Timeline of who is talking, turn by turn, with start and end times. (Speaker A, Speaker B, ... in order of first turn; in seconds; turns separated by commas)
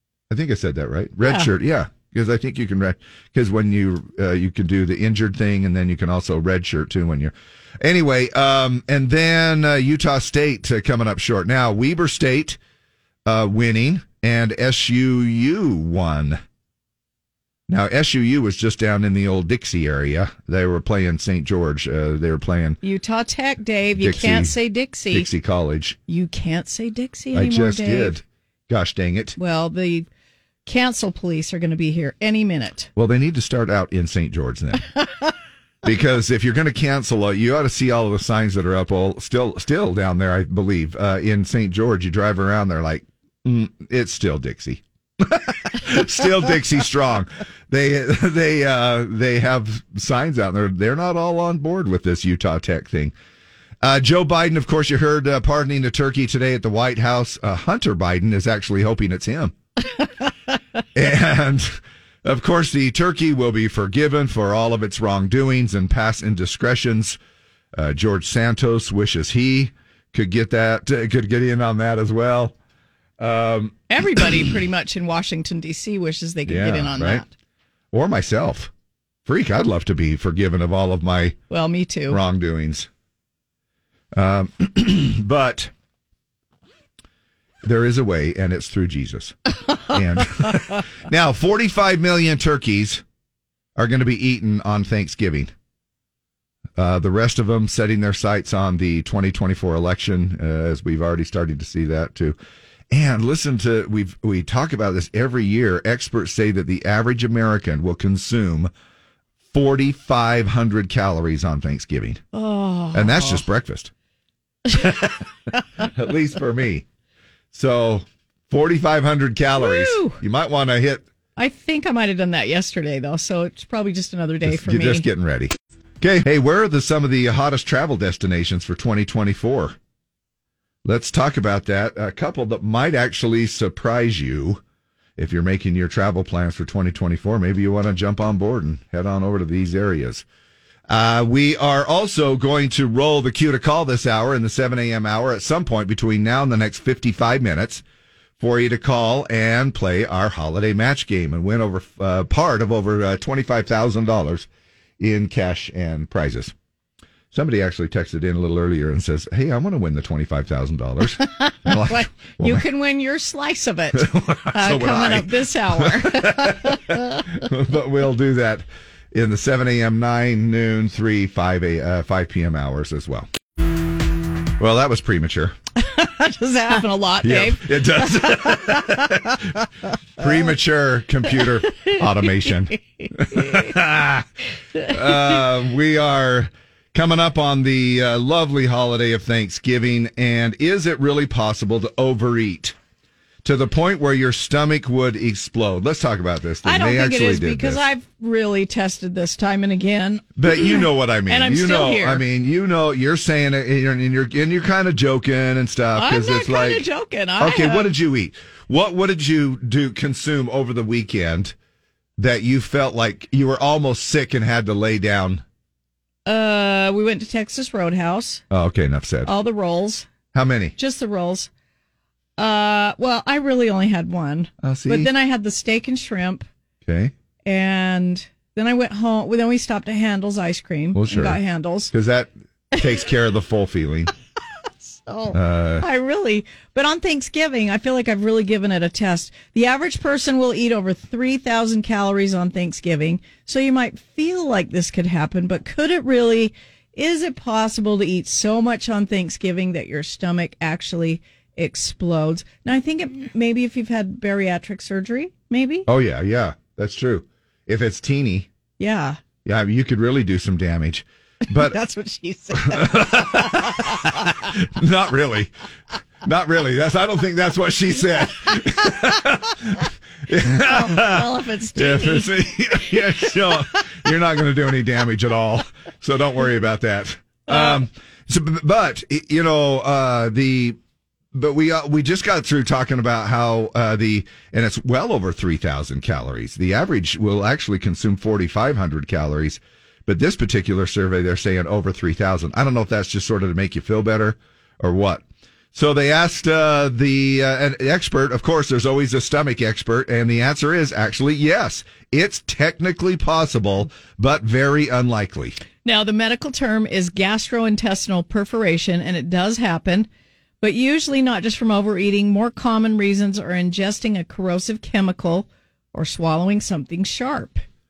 Speaker A: 0.3-12.6, Speaker B: 1.2-1.5, Speaker A: 13.2-16.4, Speaker A: 17.7-22.8, Speaker B: 22.8-25.3, Speaker A: 23.9-24.6, Speaker A: 25.1-26.0, Speaker B: 26.1-28.2, Speaker A: 27.3-29.4, Speaker B: 29.4-30.1, Speaker B: 30.6-32.9, Speaker A: 33.0-34.9, Speaker A: 35.8-53.1, Speaker A: 53.8-59.5, Speaker A: 60.9-67.2, Speaker A: 67.7-72.5, Speaker A: 73.2-74.5, Speaker B: 73.9-77.3, Speaker A: 76.5-77.2, Speaker A: 77.9-78.7, Speaker A: 79.2-81.3, Speaker B: 81.5-82.2, Speaker A: 82.1-82.9, Speaker A: 84.1-85.7, Speaker A: 87.6-93.0, Speaker A: 93.8-95.5, Speaker A: 96.8-102.3, Speaker A: 102.9-108.7, Speaker A: 109.5-112.2, Speaker B: 112.3-113.4, Speaker A: 112.9-113.9, Speaker A: 114.8-115.1, Speaker A: 115.8-116.8, Speaker A: 117.5-121.0, Speaker B: 119.6-120.2, Speaker B: 121.4-125.1, Speaker A: 124.4-129.8, Speaker A: 130.8-134.6, Speaker A: 135.2-140.2, Speaker A: 140.9-147.8, Speaker A: 148.4-154.5, Speaker A: 155.0-156.5, Speaker A: 157.3-162.6, Speaker B: 161.2-167.0, Speaker A: 163.9-173.3, Speaker A: 174.6-175.6, Speaker B: 175.8-179.4, Speaker A: 177.2-179.4, Speaker A: 180.2-184.3, Speaker B: 181.7-183.7, Speaker A: 184.8-192.8, Speaker A: 193.4-197.8, Speaker B: 196.6-202.2, Speaker A: 200.4-206.8, Speaker B: 205.9-207.9, Speaker A: 207.4-211.5, Speaker A: 212.2-215.4, Speaker B: 216.2-218.4, Speaker A: 218.5-219.3, Speaker B: 219.2-220.1, Speaker A: 220.3-220.7, Speaker B: 220.8-221.5, Speaker B: 222.4-226.5, Speaker A: 224.6-225.1, Speaker A: 226.8-227.1, Speaker B: 227.4-231.9, Speaker A: 230.9-231.4, Speaker A: 231.9-234.1, Speaker B: 234.8-255.9, Speaker A: 235.3-235.8, Speaker A: 255.8-258.5, Speaker B: 258.8-259.2, Speaker A: 259.4-261.7, Speaker B: 261.5-264.2, Speaker A: 262.7-265.5, Speaker A: 266.2-269.7, Speaker A: 270.3-280.8, Speaker B: 270.5-272.3, Speaker B: 277.5-277.8, Speaker A: 281.3-305.6, Speaker B: 305.8-310.1, Speaker B: 310.6-317.6